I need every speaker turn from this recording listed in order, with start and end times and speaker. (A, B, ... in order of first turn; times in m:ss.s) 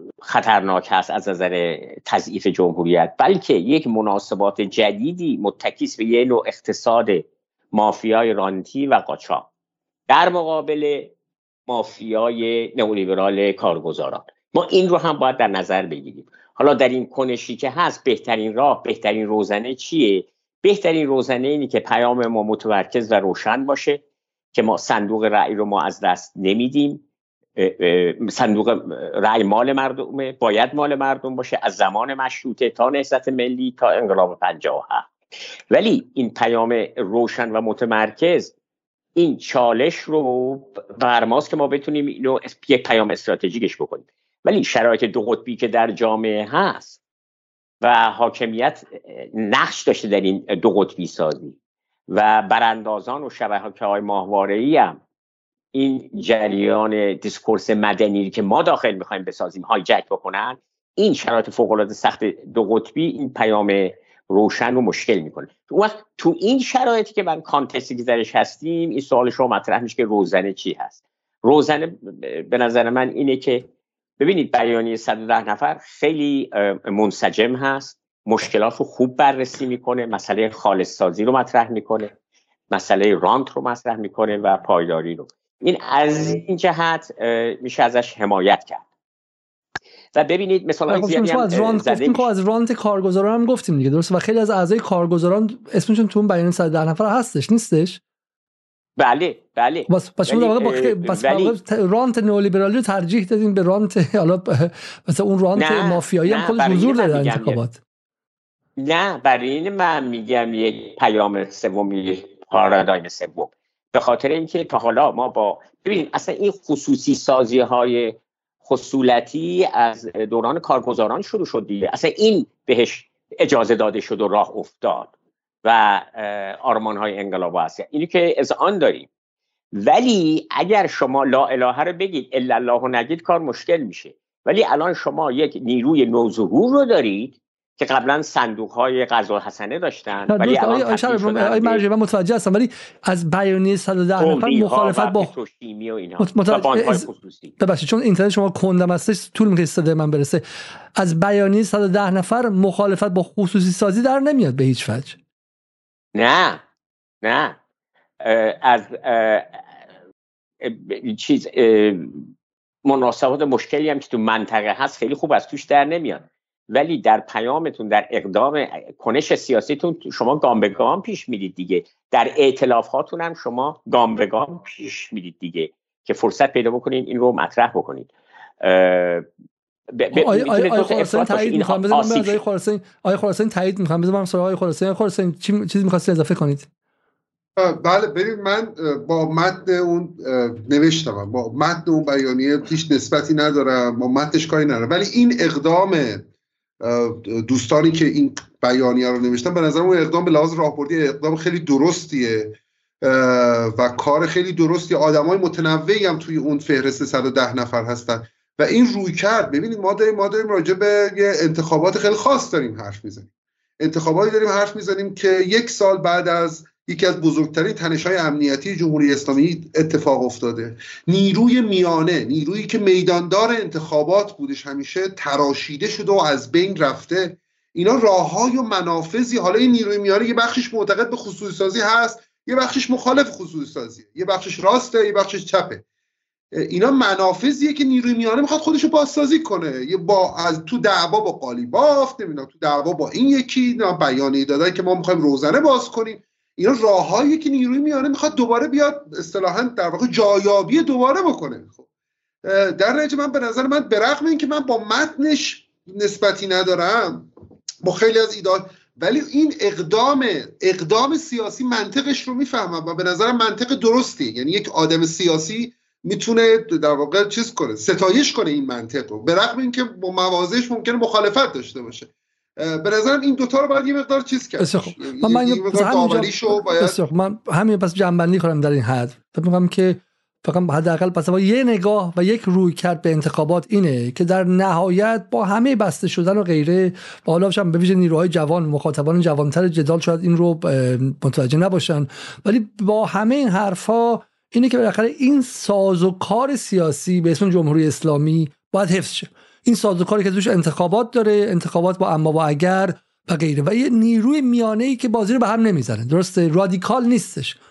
0:00.2-0:09.5 A
0:10.1-0:11.1 A
0:11.7-0:24.0 A
0:24.5-0:27.0 A
0:27.6-0:35.1 A
0:35.7-0:38.5 A
0:39.2-0:47.0 A
0:47.8-0:51.6 A
0:52.1-0:55.0 A
0:55.7-1:13.7 A
1:14.2-1:22.1 A
1:22.7-1:28.8 A
1:30.1-1:32.3 A
1:30.9-1:38.0 B
1:39.0-1:41.6 A
1:39.9-1:47.8 B
1:45.6-1:47.6 A
1:48.8-2:05.1 A
2:05.6-2:09.1 A
2:09.7-2:21.8 A
2:20.3-2:25.3 B
2:24.2-2:27.5 A
2:26.2-2:27.0 B
2:27.6-2:30.4 B
2:31.0-2:35.2 B
2:36.1-2:36.6 A
2:37.2-2:37.6 A
2:38.2-2:39.6 A
2:40.6-2:42.3 A
2:42.8-2:58.1 A
2:58.6-2:59.2 A
2:59.9-3:02.4 A
3:00.1-3:06.7 B
3:07.6-3:16.2 C
3:16.8-3:33.3 C
3:33.8-3:55.8 C
3:56.5-4:11.8 C
4:12.4-4:17.3 C
4:17.8-4:37.0 C
4:34.6-5:07.6 B